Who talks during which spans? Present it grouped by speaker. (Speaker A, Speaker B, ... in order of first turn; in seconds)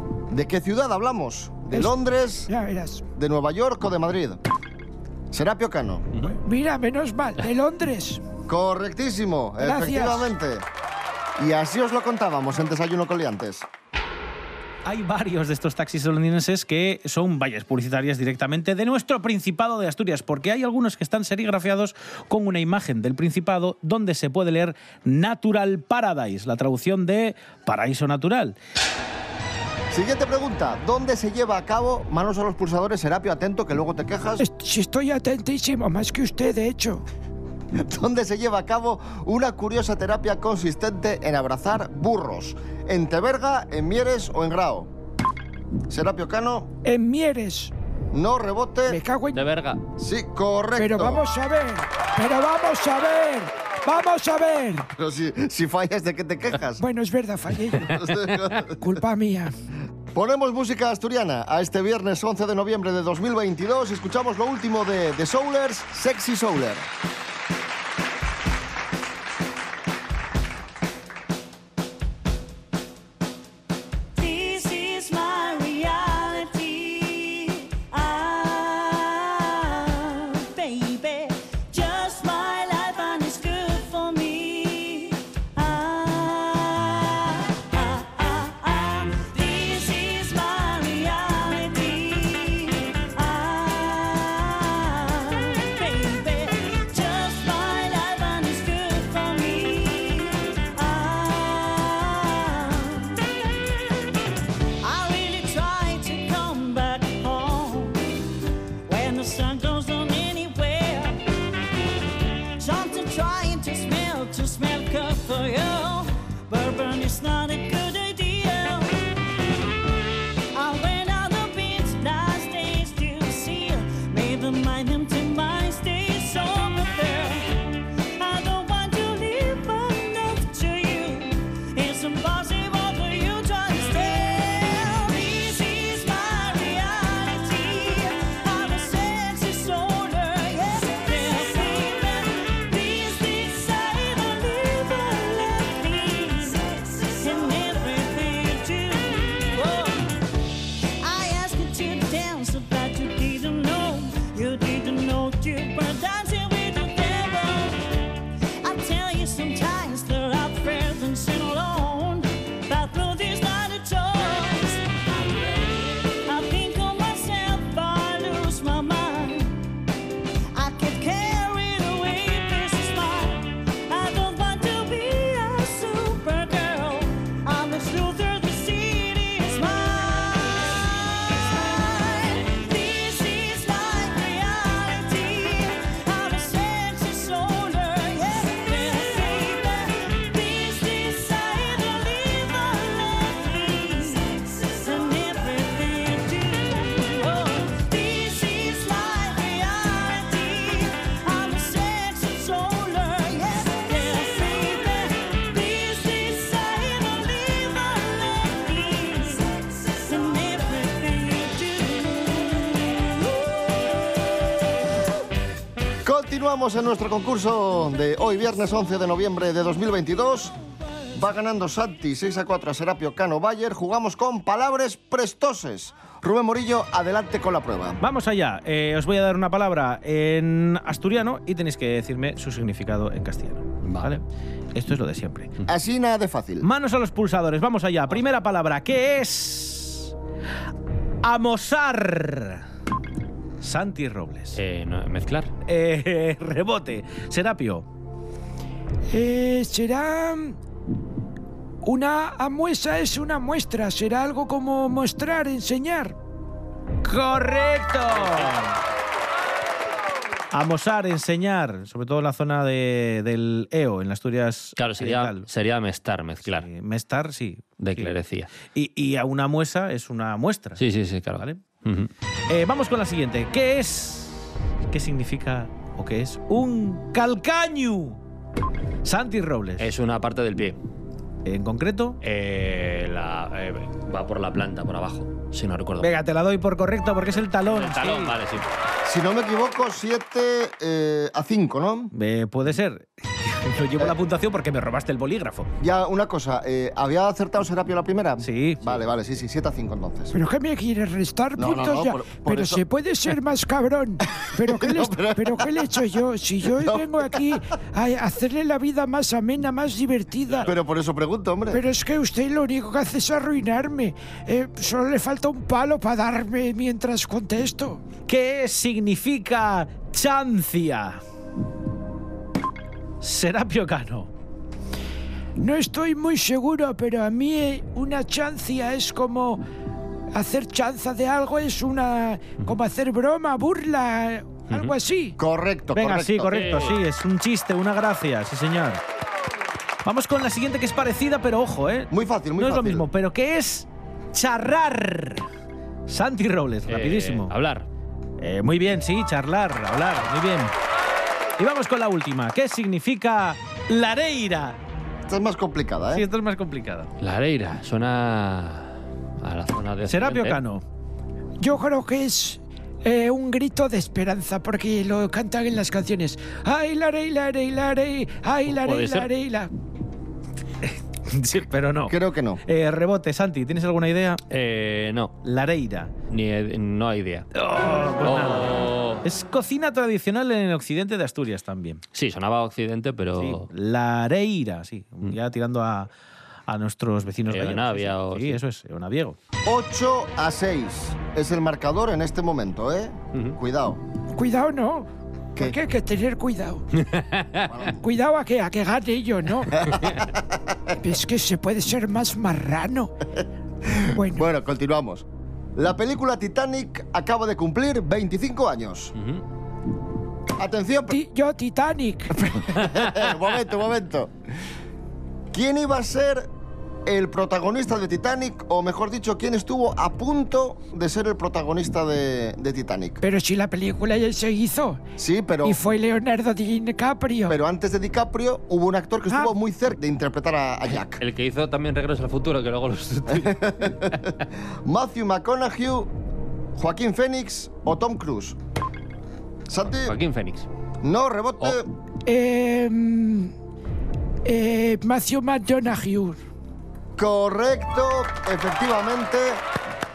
Speaker A: 0.3-2.5, 3.2-4.4, 5.3-6.1, 8.5-10.7, 11.4-13.7, 29.9-34.4, 37.8-44.9, 45.9-46.7, 48.1-49.0, 50.0-51.2, 55.0-56.8, 57.8-58.8, 60.1-66.9, 216.0-220.6, 221.1-228.0, 235.7-236.7, 289.1-292.1, 295.8-300.4, 301.6-302.8, 304.6-306.2, 306.8-307.6, 310.6-311.8, 335.4-336.5, 342.1-343.1, 355.3-356.3, 372.1-372.6, 389.6-394.0, 397.7-398.0, 399.8-400.8, 403.9-405.2, 405.8-409.1, 410.6-411.2, 412.3-414.3, 415.5-416.5, 417.1-423.2, 425.2-425.8, 427.5-431.2, 433.3-434.3, 434.9-436.1, 436.8-438.6, 439.7-440.2, 441.0-441.9, 447.2-449.6
Speaker B: 1.7-3.0, 6.4-8.2, 9.6-10.3, 34.4-37.0, 46.8-47.7, 48.9-49.5, 50.8-54.9, 56.8-57.9, 58.8-59.5, 249.1-250.6, 251.8-256.2, 300.3-310.7, 311.7-318.0, 325.6-329.6, 330.3-335.4, 361.6-369.7, 394.3-396.9, 398.0-399.8, 401.0-403.1, 404.1-404.5, 411.1-412.3, 423.2-425.0, 425.6-427.6, 429.3-429.5, 442.3-443.5, 444.5-446.4
Speaker C: 14.8-28.6, 228.0-234.2, 234.8-235.5, 236.6-240.1, 241.2-242.6, 243.6-244.6, 245.7-247.8, 257.0-258.7, 260.5-265.5, 266.5-268.1, 268.7-270.8, 271.4-271.6, 272.5-278.2, 279.0-279.9, 281.4-282.2, 286.0-288.4, 292.1-295.7, 298.4-298.8, 318.3-321.2, 323.2-324.3, 335.9-339.0, 340.1-345.4, 346.1-347.5, 348.4-350.7, 351.6-354.8, 356.1-357.1, 360.1-360.8, 370.8-374.4, 375.4-376.1, 377.5-382.0, 383.4-386.1, 386.7-389.4
Speaker D: 49.3-49.8, 233.8-234.1, 244.6-245.5, 258.2-258.5, 264.8-266.7, 267.8-268.5, 270.8-272.1, 279.8-280.8, 282.2-286.1, 287.6-288.7, 334.7-334.9, 336.5-337.0, 346.9-347.9, 357.2-360.6, 368.7-369.3, 374.5-375.3, 376.3-377.5, 378.2-379.2, 382.1-383.7, 387.5-388.6, 397.0-397.7, 409.2-409.4, 412.9-413.2, 431.1-434.2, 440.0-440.7
Speaker E: 74.2-103.2, 104.8-108.0, 108.9-111.2, 112.6-119.0, 120.5-150.2, 151.0-157.8, 158.6-165.7, 166.2-169.6, 170.5-213.2